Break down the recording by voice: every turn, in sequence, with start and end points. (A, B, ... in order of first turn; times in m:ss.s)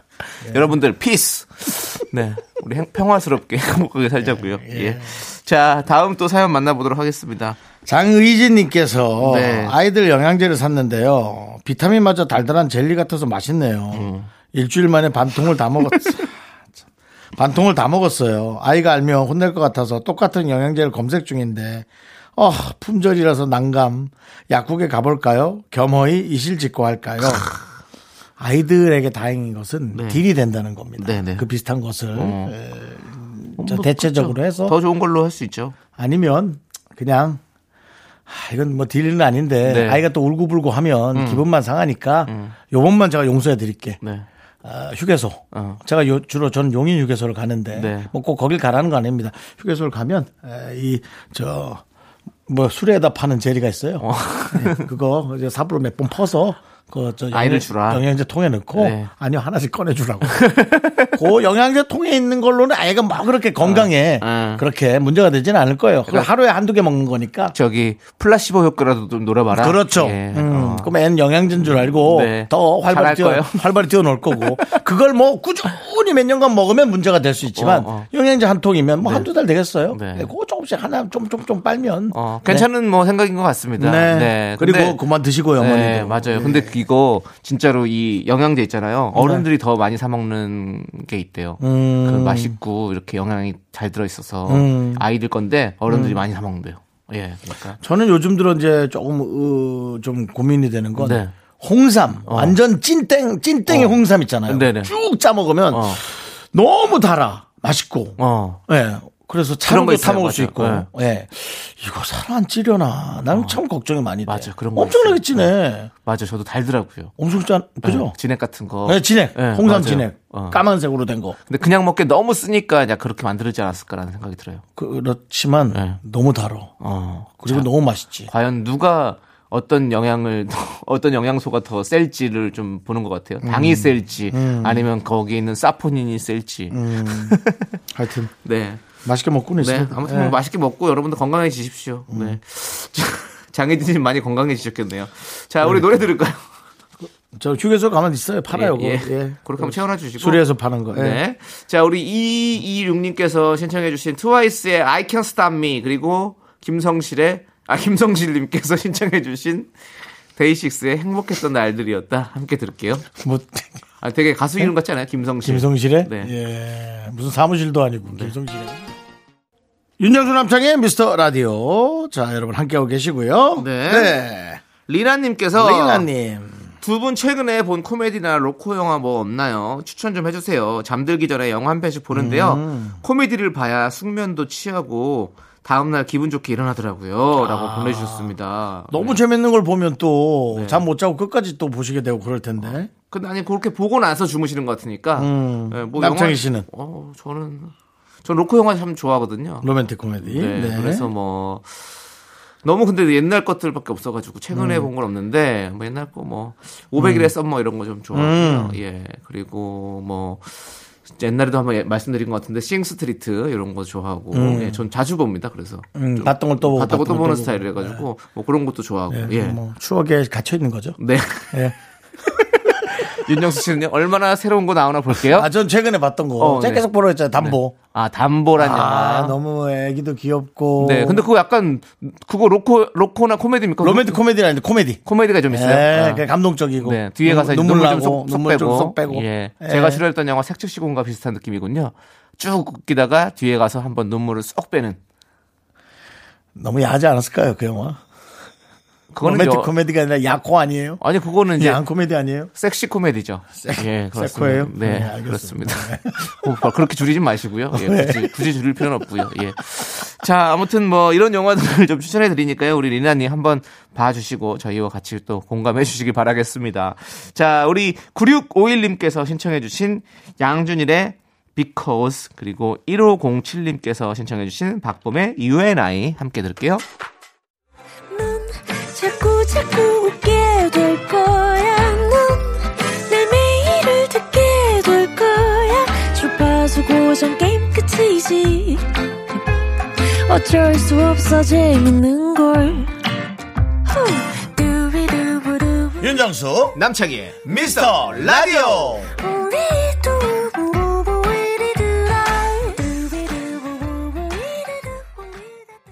0:00.4-0:07.6 A
0:00.4-0:00.7 B
0:04.2-0:05.2 B
0:07.8-0:16.3 B
0:09.2-0:09.8 A
0:13.9-0:14.3 A
0:17.4-0:27.5 B
0:27.3-0:27.6 A
0:28.4-0:34.8 B
0:29.9-0:30.2 A
0:31.0-0:31.5 A
0:32.2-0:32.6 A
0:33.6-0:35.8 A
0:36.0-0:37.4 B
0:38.3-0:44.0 B
0:39.6-0:40.0 A
0:41.1-0:41.4 A
0:42.3-0:42.6 A
0:44.0-0:44.3 A
0:44.6-0:51.8 B
0:45.5-0:45.8 A
0:47.7-0:48.1 A
0:52.5-1:00.5 B
0:54.0-0:54.9 A
0:57.3-0:58.0 A
0:58.8-0:59.1 A
1:00.2-1:01.1 A
1:01.1-1:07.5 B
1:03.6-1:04.6 A
1:07.5-1:10.9 A
1:09.5-1:22.7 B
1:11.6-1:13.7 A
1:14.3-1:14.8 A
1:17.6-1:18.1 A
1:19.0-1:19.3 A
1:19.9-1:20.3 A
1:22.1-1:25.0 A
1:23.8-1:26.8 B
1:25.6-1:37.8 A
1:29.2-1:29.5 B
1:31.6-1:32.6 B
1:34.5-1:35.0 B
1:35.9-1:36.2 B
1:37.8-1:55.9 B
1:41.0-1:41.3 A
1:42.3-1:42.6 A
1:43.7-1:44.9 A
1:45.7-1:46.0 A
1:48.2-1:48.6 A
1:49.7-1:50.9 A
1:53.3-1:53.6 A
1:54.3-1:55.5 A
1:56.0-1:57.1 A
1:57.2-1:58.2 B
1:57.8-2:00.6 A
1:58.8-2:01.4 B
2:01.5-2:04.6 A
2:04.8-2:06.7 B
2:05.7-2:06.0 A
2:06.8-2:07.7 A
2:07.4-2:08.3 B
2:08.3-2:17.8 A
2:13.4-2:14.9 B
2:16.7-2:18.3 B
2:18.4-2:18.8 A
2:19.0-2:20.4 B
2:19.6-2:26.5 A
2:22.1-2:22.4 B
2:25.6-2:26.1 B
2:27.0-2:31.2 B
2:28.5-2:39.7 A
2:40.4-2:43.1 A
2:43.1-2:43.7 B
2:44.0-2:46.3 A
2:45.4-2:48.9 B
2:50.0-2:54.6 B
2:53.6-2:54.2 A
2:54.9-2:56.1 A
2:55.5-2:56.7 B
2:56.8-3:09.2 A
3:02.1-3:03.0 B
3:07.4-3:08.4 B
3:08.9-3:12.9 B
3:10.5-3:10.8 A
3:12.6-3:17.7 A
3:15.2-3:16.7 B
3:18.2-3:19.7 A
3:19.6-3:21.1 B
3:20.2-3:21.8 A
3:22.6-3:39.6 A
3:24.5-3:24.9 B
3:27.0-3:27.3 B
3:28.1-3:28.8 B
3:34.3-3:34.8 B
3:36.0-3:38.0 B
3:39.1-3:41.0 B
3:41.0-3:41.6 A
3:42.6-3:45.5 A
3:45.2-3:47.8 B
3:46.4-3:49.4 A
3:48.6-3:51.3 B
3:50.8-3:54.2 A
3:53.8-4:00.0 B
3:55.0-3:56.3 A
3:56.8-4:05.0 A
4:06.6-4:08.0 B
4:09.1-4:09.7 A
4:09.2-4:11.0 B
4:11.0-4:11.8 A
4:11.6-4:12.5 B
4:12.6-4:36.8 A
4:13.6-4:16.6 B
4:17.7-4:18.4 B
4:38.1-4:49.4 C
4:50.0-4:53.0 C
4:53.9-4:56.1 C
4:56.0-4:56.8 B
4:56.8-4:59.0 A
4:57.5-4:59.1 B
4:59.2-5:05.7 C